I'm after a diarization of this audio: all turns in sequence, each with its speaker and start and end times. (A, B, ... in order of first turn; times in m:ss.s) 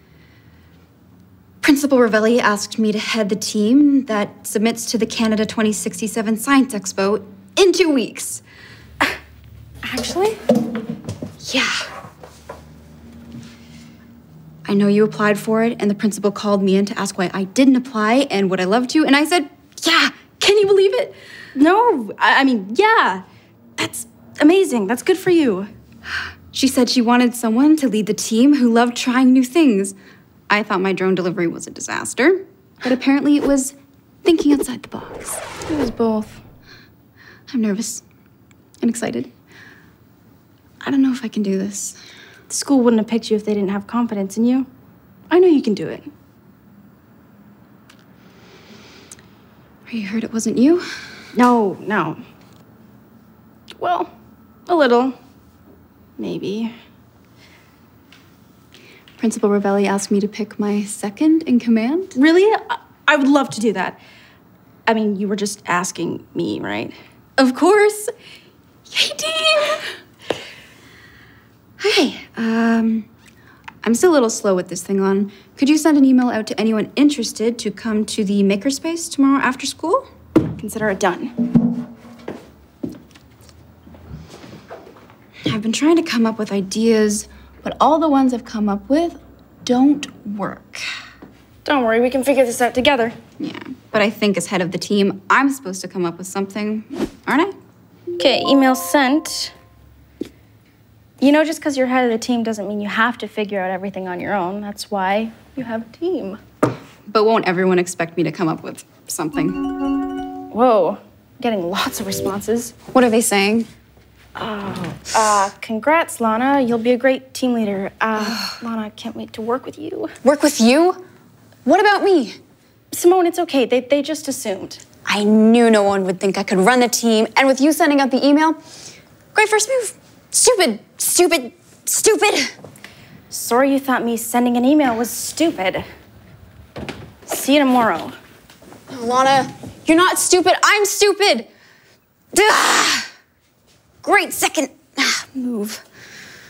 0:01.6-0:08.4 A
0:09.8-0:10.4 B
0:11.4-0:11.8 A
0:14.7-0:21.2 A
0:21.5-0:23.2 B
0:23.8-0:25.7 B
0:26.5-0:30.0 A
0:30.5-0:35.4 A
0:35.7-0:36.4 B
0:37.5-0:38.0 A
0:38.8-0:39.3 A
0:40.8-0:42.0 A
0:42.5-0:44.7 B
0:45.3-0:46.1 B
0:49.9-0:50.8 A
0:51.3-0:52.2 B
0:53.8-0:54.1 B
0:54.7-0:55.2 B
0:56.2-0:56.7 B
0:59.2-1:02.2 A
1:02.2-1:04.0 B
1:04.9-1:07.0 B
1:07.4-1:08.1 A
1:08.9-1:09.8 A
1:11.8-1:13.1 A
1:13.8-1:20.1 A
1:20.6-1:21.3 B
1:25.5-1:30.9 A
1:31.6-1:33.2 B
1:33.4-1:37.6 A
1:38.2-1:39.5 B
1:41.2-1:46.4 B
1:47.1-1:49.6 A
1:50.5-1:52.7 B
1:52.9-1:53.7 A
1:54.4-2:00.1 B
1:58.2-1:58.5 A
2:00.2-2:01.0 A
2:01.6-2:02.4 A
2:02.9-2:04.8 B
2:05.1-2:08.6 A
2:09.3-2:12.5 A
2:13.3-2:15.9 B
2:17.3-2:18.2 B
2:18.9-2:21.5 A
2:22.3-2:23.1 A
2:24.0-2:25.8 A